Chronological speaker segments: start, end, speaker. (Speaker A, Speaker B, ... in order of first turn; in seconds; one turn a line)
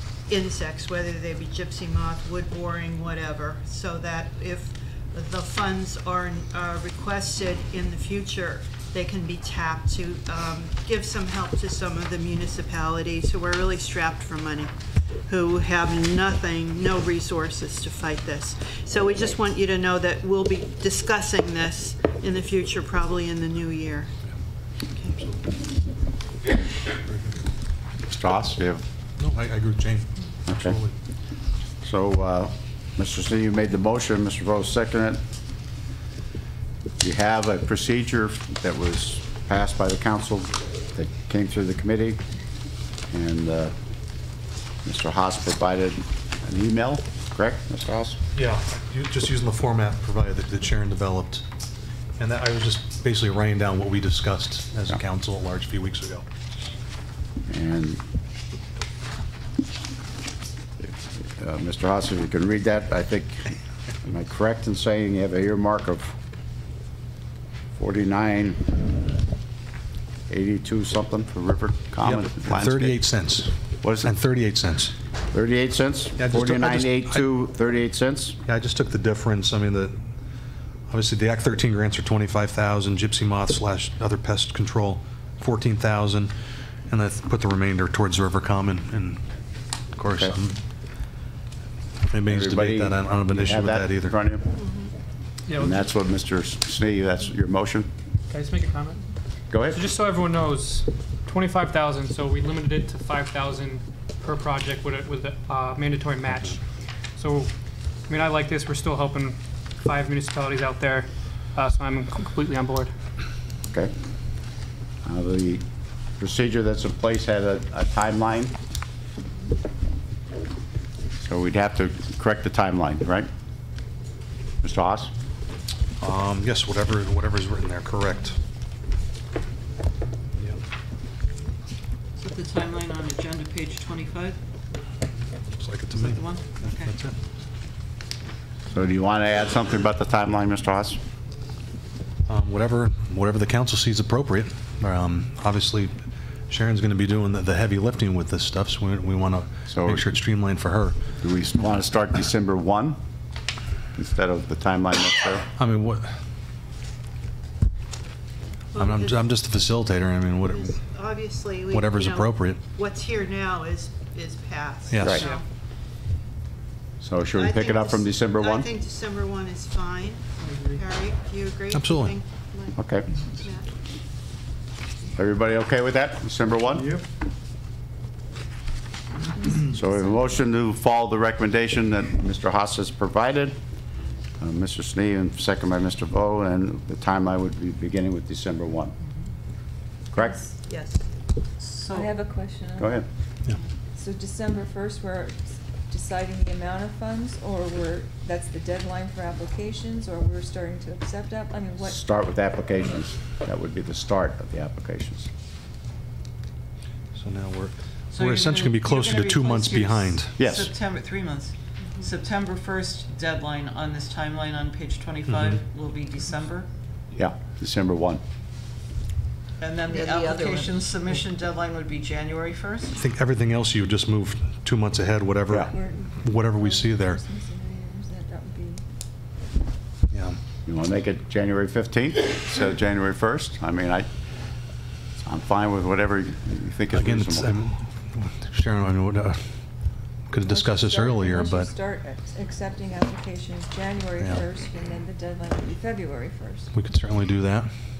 Speaker A: 0.3-14.7
Speaker A: 15.3-24.1
Speaker B: 25.1-25.4
Speaker B: 27.1-27.3
Speaker C: 28.1-28.8
Speaker B: 29.2-30.9
Speaker C: 30.5-30.8
Speaker C: 31.8-35.2
Speaker C: 37.0-42.2
Speaker C: 43.1-43.7
Speaker C: 44.8-48.2
Speaker B: 48.3-51.4
Speaker B: 52.2-56.2
Speaker C: 57.5-58.0
Speaker C: 60.8-63.5
Speaker C: 64.0-66.1
Speaker C: 67.8-68.8
Speaker C: 70.3-73.0
Speaker B: 72.0-74.9
Speaker C: 73.8-74.1
Speaker C: 75.3-78.4
Speaker B: 76.2-77.2
Speaker B: 78.5-80.0
Speaker B: 80.9-86.3
Speaker B: 86.9-89.2
Speaker B: 89.9-90.6
Speaker B: 92.1-94.1
Speaker C: 92.3-94.5
Speaker D: 95.5-95.9
Speaker C: 95.6-97.9
Speaker D: 98.3-99.0
Speaker C: 99.5-99.8
Speaker D: 99.7-106.6
Speaker D: 107.2-107.5
Speaker D: 108.1-112.9
Speaker C: 115.0-115.6
Speaker C: 116.2-118.5
Speaker C: 121.2-123.3
Speaker C: 124.6-125.1
Speaker B: 126.0-128.4
Speaker E: 132.2-134.4
Speaker B: 135.5-137.2
Speaker E: 135.9-136.9
Speaker C: 138.7-141.0
Speaker B: 142.2-145.9
Speaker B: 146.5-151.0
Speaker C: 149.7-150.0
Speaker C: 151.2-153.0
Speaker C: 153.9-155.4
Speaker B: 155.6-156.1
Speaker A: 158.7-159.2
Speaker B: 158.8-160.7
Speaker A: 160.4-165.4
Speaker B: 161.7-162.6
Speaker B: 164.9-165.2
Speaker C: 167.0-168.7
Speaker A: 167.3-172.8
Speaker B: 171.7-172.1
Speaker C: 172.8-173.1
Speaker A: 173.3-173.7
Speaker C: 175.2-177.0
Speaker F: 179.4-180.2
Speaker C: 179.7-183.6
Speaker C: 184.4-188.9
Speaker C: 190.1-190.4
Speaker F: 190.2-190.5
Speaker A: 190.7-191.0
Speaker E: 191.6-192.1
Speaker F: 191.9-193.0
Speaker C: 192.8-193.1
Speaker F: 193.9-202.0
Speaker C: 201.8-205.3
Speaker B: 207.1-210.4
Speaker E: 208.1-216.7
Speaker C: 210.4-210.7
Speaker C: 217.1-218.2
Speaker E: 219.6-222.9
Speaker A: 220.1-220.5
Speaker B: 222.9-227.2
Speaker F: 225.6-228.8
Speaker B: 230.1-230.4
Speaker C: 230.6-234.1
Speaker C: 235.2-237.6
Speaker B: 236.9-239.4
Speaker B: 240.3-241.7
Speaker F: 240.4-246.7
Speaker B: 244.2-244.4
Speaker B: 246.7-247.7